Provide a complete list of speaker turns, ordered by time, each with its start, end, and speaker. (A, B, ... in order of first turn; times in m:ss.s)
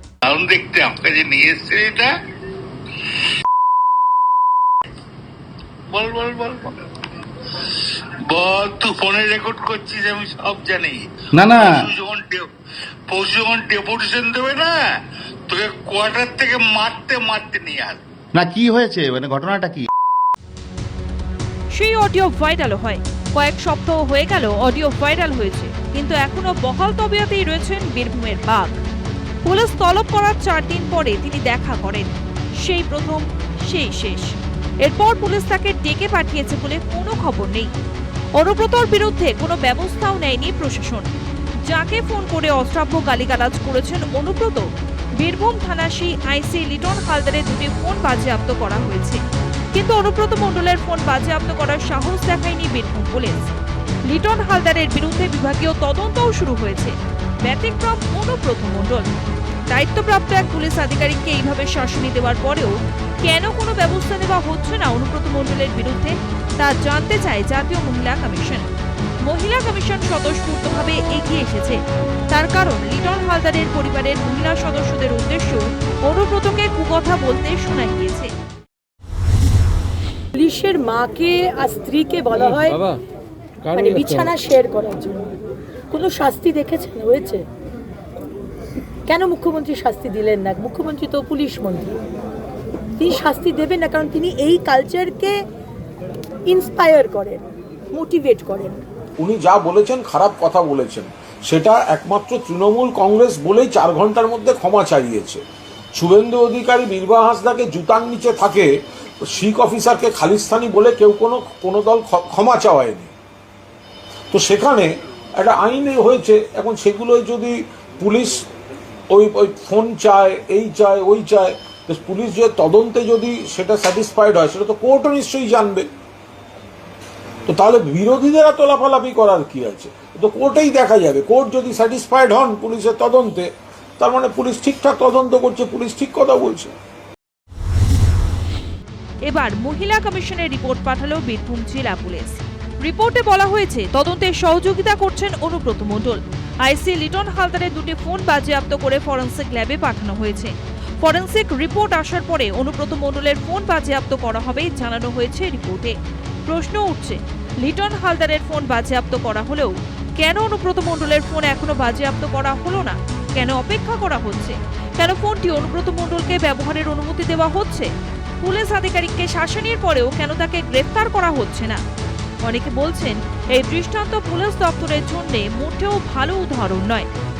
0:00.2-0:02.1 A
0:05.9-0:06.7 A
0:08.3-0:12.5 A
0:11.3-0:11.9 B
0:13.1-0:14.8 A
0:15.5-0:18.0 A
0:18.4-0:19.9 B
0:21.7-0:28.8 C
0:29.4-0:32.1 C
0:32.6-0:34.3 C
0:34.8-0:37.7 C
0:38.4-0:41.1 C
0:41.7-0:44.7 C
0:45.2-0:49.2 C
0:49.7-0:53.5 C
0:54.1-0:59.1 C
0:59.7-1:08.7 C
1:09.2-1:11.8 C
1:12.3-1:18.3 C
1:20.4-1:22.9 D
1:23.7-1:25.4 D
1:25.9-1:27.4 D
1:29.1-1:32.0 D
1:33.0-1:35.4 D
1:36.5-1:38.8 D
1:39.2-1:45.4 E
1:46.0-1:48.7 E
1:49.2-1:53.1 E
1:54.3-1:58.5 E
1:59.1-2:05.9 E
2:07.5-2:16.7 E
2:19.3-2:36.0 C
2:36.5-2:47.9 C
2:48.4-2:51.8 C
2:52.4-2:57.1 C